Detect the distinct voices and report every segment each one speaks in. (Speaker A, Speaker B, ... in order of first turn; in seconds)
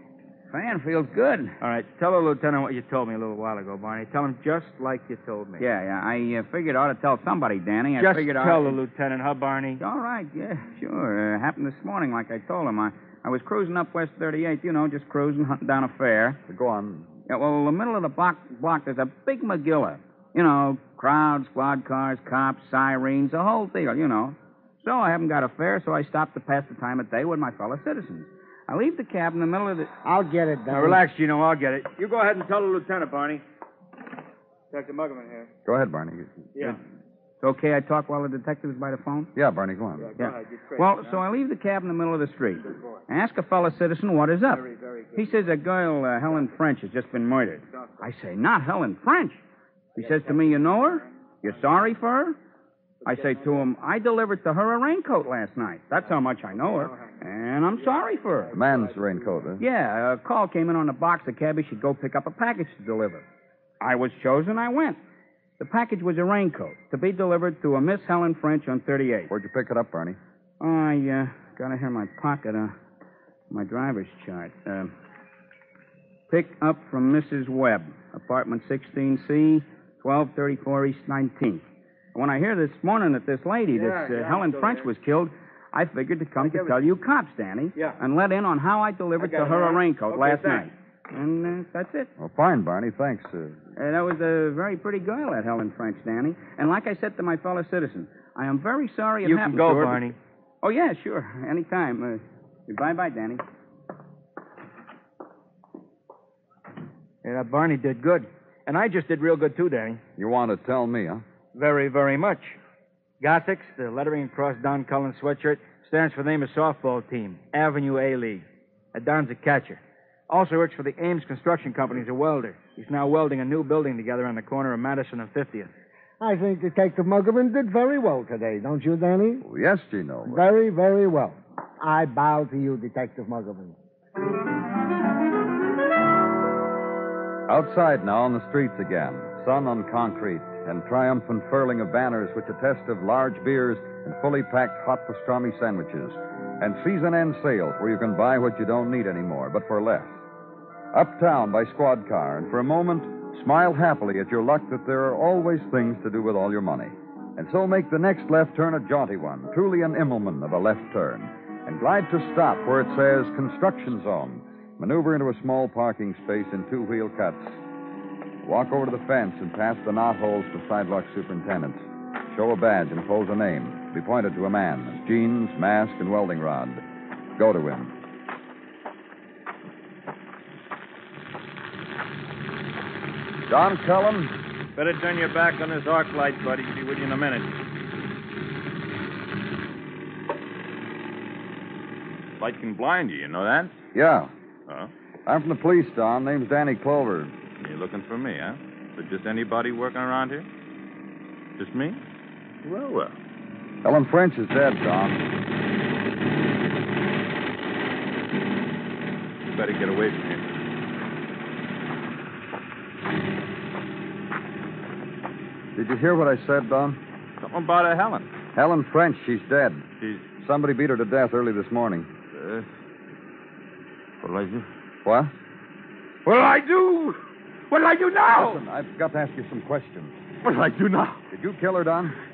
Speaker A: 0.5-1.6, 5.6-8.7, 9.8-16.4, 17.3-29.9, 37.4-39.3, 40.2-49.4, 50.0-52.4, 53.0-58.6, 59.6-63.2, 63.8-65.0, 65.6-69.3, 70.6-72.7, 73.5-74.9, 76.3-81.6, 82.1-92.1, 93.8-100.0, 100.6-103.4
Speaker B: 1.6-5.7, 8.0-9.8, 30.7-33.4, 34.7-35.5, 40.2-41.1, 83.8-84.8, 86.5-86.7, 89.3-90.6, 99.2-100.2, 107.2-110.0, 111.5-112.6, 113.2-125.7
Speaker C: 16.5-17.1, 35.6-36.4, 39.3-40.2, 58.5-59.6, 69.3-70.2, 92.2-93.6, 110.2-111.2, 129.4-130.4, 137.5-150.2, 150.9-167.6, 168.4-176.8, 177.3-177.9, 183.5-184.3, 193.9-194.3, 195.2-197.3, 203.8-205.3, 215.8-217.0, 218.5-219.8, 220.4-222.1, 225.0-225.3, 228.3-230.2, 231.3-232.2
Speaker D: 30.0-31.0, 126.2-129.4, 130.3-133.7
Speaker E: 184.8-187.5, 192.4-193.7, 197.6-200.5, 201.6-202.0, 202.6-203.2, 209.5-210.4, 217.4-218.3, 220.0-220.2, 222.3-222.7, 224.2-224.7, 226.2-228.6, 230.4-231.2